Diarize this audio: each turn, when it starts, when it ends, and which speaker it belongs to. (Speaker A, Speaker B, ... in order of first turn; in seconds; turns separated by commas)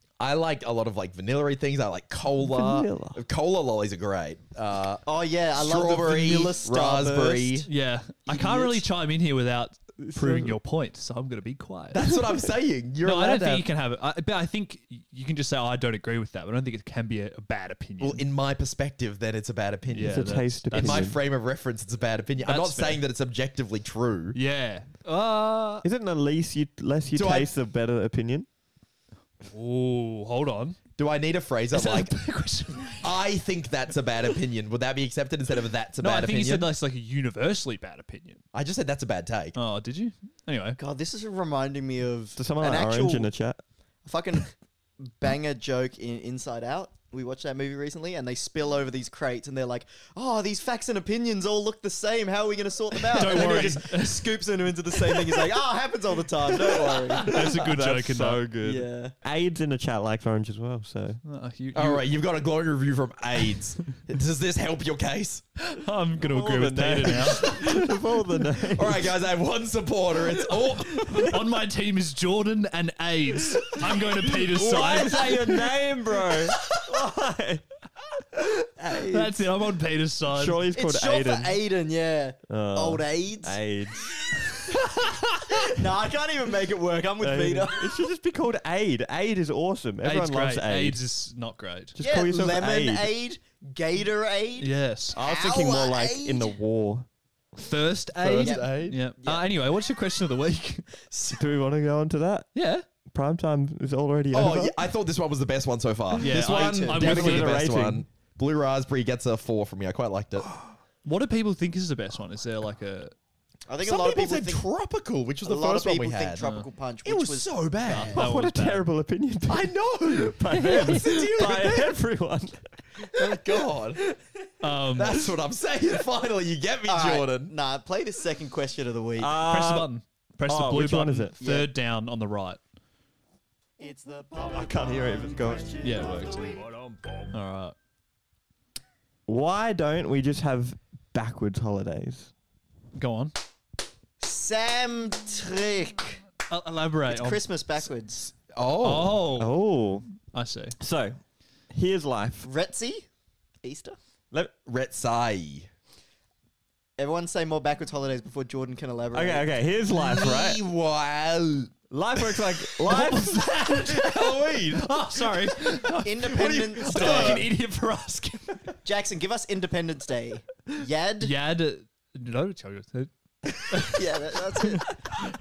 Speaker A: 0.2-5.0, Speaker B: 2.4-3.2, Speaker C: 5.0-7.7, Speaker A: 5.5-7.6, Speaker D: 7.7-12.2, Speaker C: 8.3-8.8, Speaker B: 10.0-10.6, Speaker A: 11.9-13.6, Speaker D: 13.0-18.2, Speaker A: 18.0-24.4, Speaker D: 19.9-21.1, Speaker B: 19.9-21.2, Speaker D: 22.4-23.0, Speaker D: 24.3-25.8, Speaker B: 25.8-28.5, Speaker A: 27.1-27.5, Speaker D: 29.5-30.8, Speaker A: 31.0-32.1, Speaker D: 31.7-33.1, Speaker A: 33.0-36.7, Speaker D: 36.0-38.4, Speaker A: 38.5-39.5, Speaker D: 39.5-40.8, Speaker C: 40.8-43.3, Speaker B: 42.4-43.6, Speaker C: 44.0-57.3, Speaker D: 53.2-54.4, Speaker A: 56.6-57.3, Speaker B: 56.6-61.2, Speaker D: 57.3-58.4, Speaker C: 58.6-59.1, Speaker D: 61.2-62.0, Speaker A: 61.7-65.4, Speaker D: 65.7-67.7, Speaker B: 66.2-69.1, Speaker A: 67.4-67.8, Speaker A: 68.7-71.4, Speaker D: 70.9-75.6, Speaker A: 74.5-75.4, Speaker B: 74.5-77.6, Speaker C: 78.8-79.2, Speaker D: 79.1-80.6, Speaker B: 80.3-81.6, Speaker C: 80.7-83.6, Speaker B: 82.5-84.1, Speaker C: 85.7-87.8, Speaker B: 87.2-91.0, Speaker D: 90.0-92.0, Speaker B: 92.0-93.1, Speaker C: 92.0-96.5, Speaker D: 94.6-95.2, Speaker B: 95.1-97.1, Speaker D: 97.6-101.0, Speaker A: 98.2-99.0, Speaker C: 98.4-99.5, Speaker B: 101.3-102.5, Speaker D: 102.5-102.8, Speaker B: 103.1-104.8, Speaker A: 104.3-110.5, Speaker D: 106.2-107.7, Speaker C: 106.2-107.1, Speaker B: 107.0-108.0, Speaker D: 111.0-113.1, Speaker C: 113.7-114.7, Speaker A: 113.8-116.4, Speaker C: 115.4-118.2, Speaker D: 116.4-116.6, Speaker A: 117.0-118.2, Speaker D: 117.8-118.9, Speaker B: 118.1-123.0, Speaker A: 119.5-121.9, Speaker A: 123.1-124.0, Speaker D: 124.6-125.2, Speaker A: 124.9-127.5, Speaker C: 126.9-129.4, Speaker B: 129.2-129.9, Speaker D: 129.5-132.6, Speaker B: 130.5-131.4, Speaker C: 131.4-131.7, Speaker C: 133.8-136.6, Speaker B: 134.5-136.3, Speaker D: 135.8-136.3, Speaker D: 137.3-137.7, Speaker B: 139.3-142.3, Speaker D: 142.9-143.3, Speaker C: 144.2-146.2, Speaker D: 146.5-147.5, Speaker C: 147.1-148.3, Speaker A: 148.5-149.2, Speaker D: 148.8-149.6, Speaker B: 149.3-150.1, Speaker D: 150.3-150.8, Speaker B: 150.8-151.2, Speaker B: 151.7-152.5, Speaker C: 152.4-153.1, Speaker C: 153.6-154.0, Speaker A: 154.7-155.7, Speaker C: 157.0-159.5, Speaker B: 159.1-160.6, Speaker A: 159.9-161.7, Speaker B: 161.9-163.5, Speaker D: 162.8-168.6, Speaker A: 163.7-165.5, Speaker C: 166.0-167.5, Speaker A: 166.2-167.5, Speaker C: 168.8-171.3, Speaker D: 171.2-173.1, Speaker D: 173.7-173.9, Speaker C: 173.9-174.9